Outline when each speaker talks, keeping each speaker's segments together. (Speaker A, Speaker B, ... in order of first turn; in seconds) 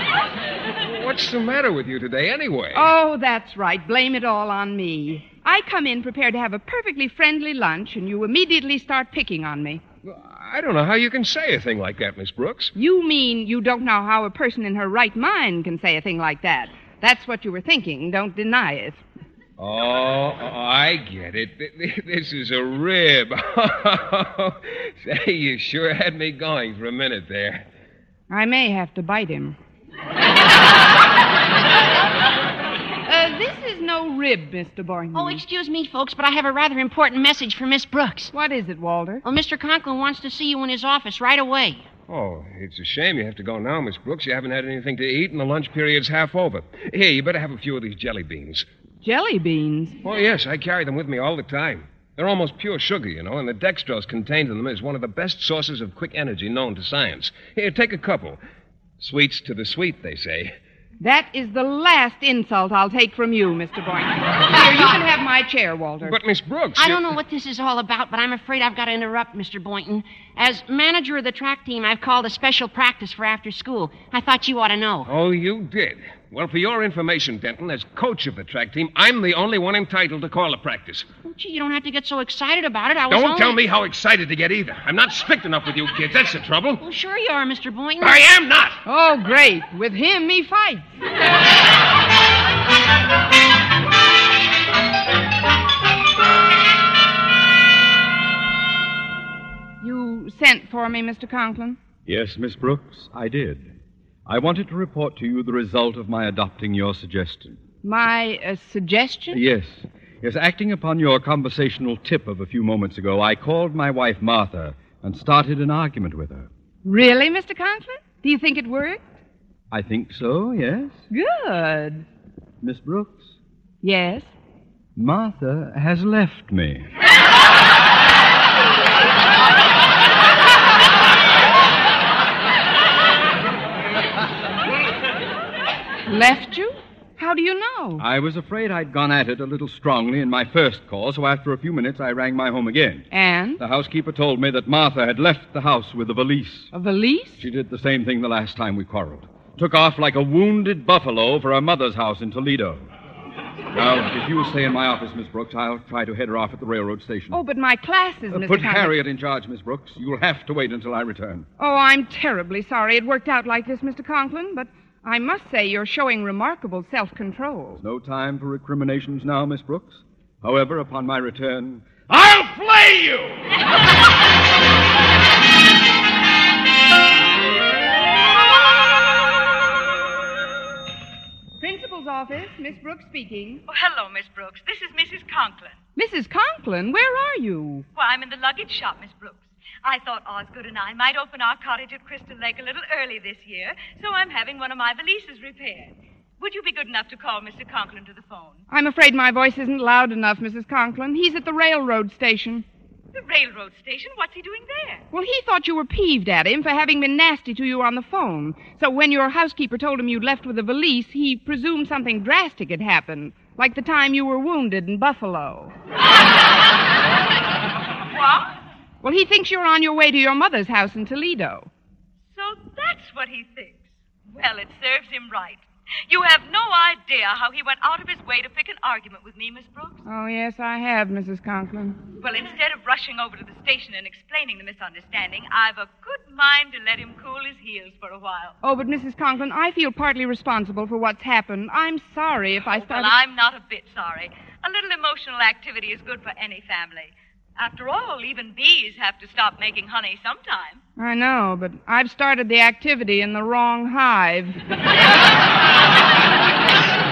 Speaker A: 0.8-2.9, 10.1-12.7, 19.6-27.7, 42.1-48.7, 50.0-58.4, 59.0-60.5, 66.0-67.2, 75.0-81.1, 83.1-86.8, 88.0-88.8
Speaker B: 2.7-9.8, 12.8-19.0, 28.3-29.6, 33.1-35.4, 38.3-39.2, 49.0-50.0, 61.0-66.2, 88.9-91.0, 99.8-101.8, 107.8-109.4, 116.8-119.0, 121.1-122.1, 123.8-124.3, 136.1-138.0, 143.1-143.6, 146.7-147.4, 157.3-158.9, 161.6-167.8, 181.6-183.6, 186.0-187.9, 198.7-202.7, 205.1-215.7, 219.0-221.7, 230.1-232.0, 238.6-243.1, 251.0-254.6
Speaker C: 35.1-38.3, 39.2-41.9, 66.8-75.1, 81.2-83.6, 86.8-88.2
Speaker D: 102.1-103.7, 104.3-107.6, 109.3-116.5, 119.7-121.0, 122.6-123.3, 125.0-126.9, 138.0-143.1, 143.6-146.7, 147.4-152.9, 153.7-157.4, 158.3-161.5, 167.8-173.4
Speaker E: 183.7-185.8, 187.9-198.6, 203.2-205.0, 222.3-230.0, 232.2-238.6, 242.8-250.8